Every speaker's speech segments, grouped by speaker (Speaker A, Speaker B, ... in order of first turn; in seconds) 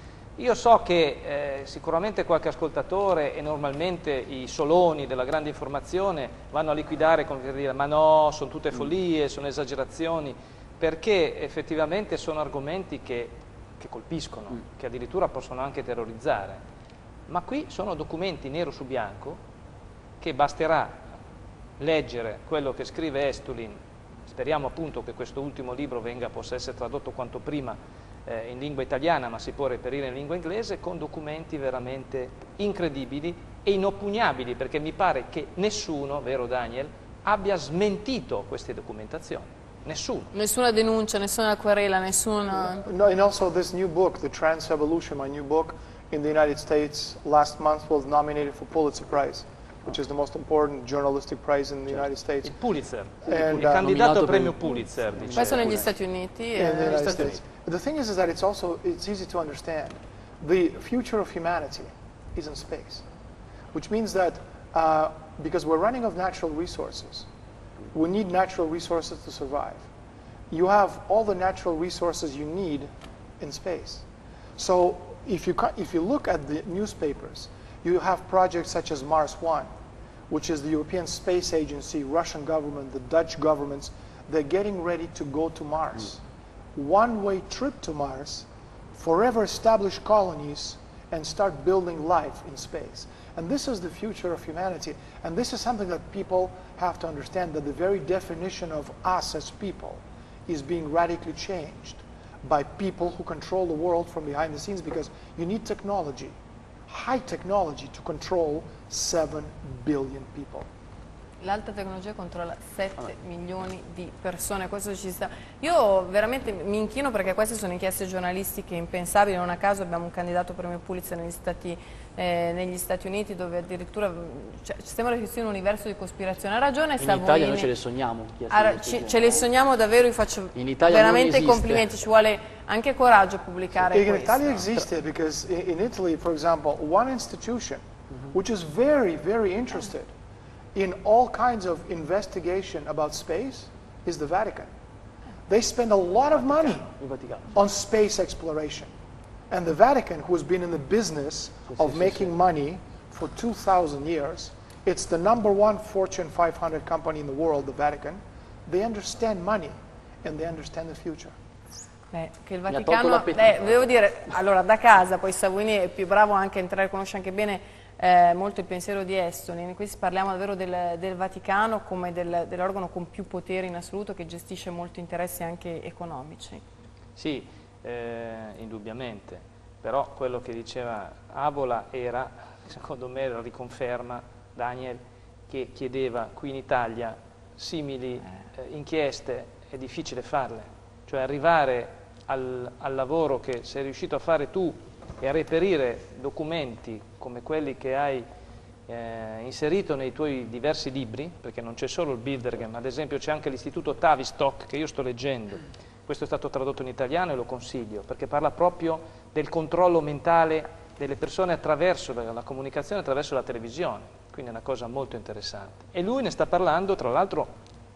Speaker A: 0.4-16.6, 17.3-19.4, 20.2-21.0, 21.8-40.3, 52.4-55.9, 177.2-198.2, 198.9-217.5
Speaker B: 40.3-42.9, 55.4-57.3, 111.4-127.7, 128.5-134.7, 162.1-176.6
Speaker C: 42.8-52.5, 53.3-53.9, 56.6-63.0, 63.7-67.3, 67.9-69.9, 70.5-74.0, 74.6-79.7, 80.3-86.2, 86.8-106.3, 106.9-110.7, 133.9-140.1, 140.7-144.7, 145.5-146.9, 147.5-148.9, 149.5-161.3
Speaker D: 53.3-55.9, 127.0-129.5, 130.5-131.9, 146.4-147.5, 151.7-152.3, 162.7-163.8